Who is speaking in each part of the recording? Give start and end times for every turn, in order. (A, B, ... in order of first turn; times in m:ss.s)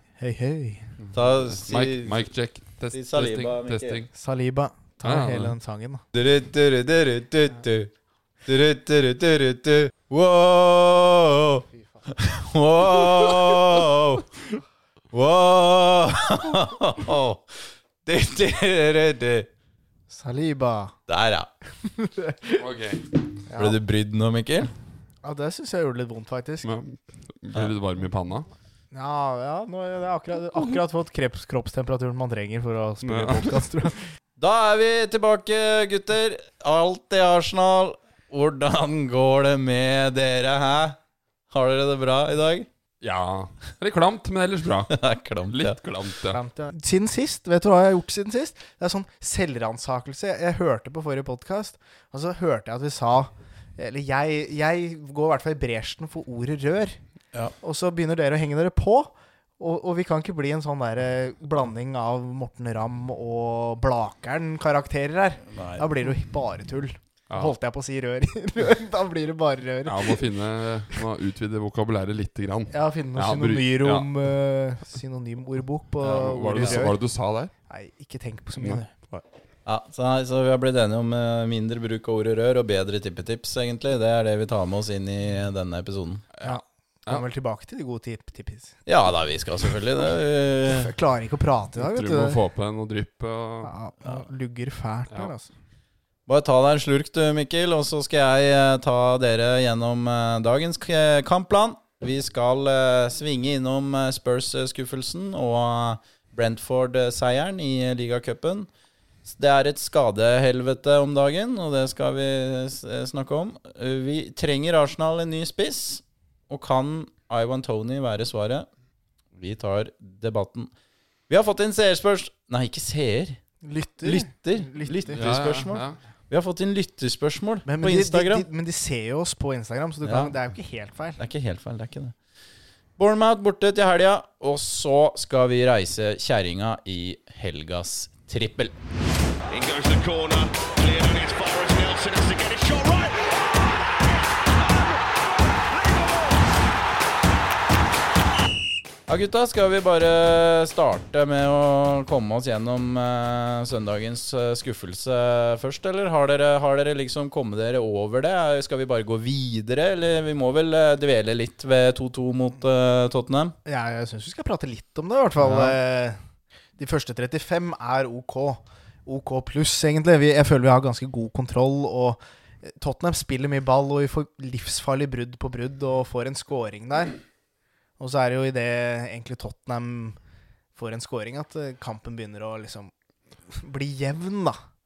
0:00.2-0:00.9 A
0:01.0-0:04.1 B
0:01.1-0:02.3 C
0:02.9-0:04.1 C
0:04.1-0:06.0 A
0:05.0-0:05.6 B
0:06.1-0:07.9 C
0:08.4-0:14.3 C
0:15.1-0:19.5 C
0:20.1-0:20.9 A
0:21.1-0:21.5 C
0:21.8-0:22.6 A
0:22.6-0:23.0 B
0:23.5-0:23.8 A
0:23.5-0:24.7 C
0:25.2-0:26.7 A
0:26.6-0:28.5 B
0:28.9-0:34.1 A
0:33.0-0:33.6 B
0:34.4-0:41.0 C
0:41.5-0:42.7 C
0:43.0-0:46.4 B
0:44.9-0:45.8 C
0:46.3-0:57.0 A
0:57.6-1:10.2 A
1:05.5-1:05.8 C
1:09.8-1:14.1 B
1:12.7-1:17.0 A
1:16.0-1:17.5 B
1:16.6-1:16.9 C
1:17.7-1:18.9 A
1:18.6-1:19.2 B
1:19.7-1:26.2 C
1:26.4-1:27.2 B
1:26.4-1:28.8 A
1:28.9-1:30.9 C
1:30.7-1:32.4 A
1:31.8-1:33.7 B
1:33.6-1:35.5 A
1:36.3-1:48.7 C
1:49.2-1:58.7 C
1:59.3-2:00.7 C
2:01.3-2:03.4 C
2:03.6-2:05.5 A
2:04.0-2:08.5 C
2:05.1-2:06.0 B
2:07.6-2:11.2 A
2:10.0-2:10.4 C
2:11.2-2:12.2 C
2:13.0-2:18.8 C
2:19.5-2:23.3 D
2:29.1-2:43.6 C
2:43.6-2:46.2 A
2:45.4-2:45.8 C
2:46.8-2:57.2 A
2:58.0-3:00.2 A
3:00.8-3:02.9 A
3:03.5-3:04.6 A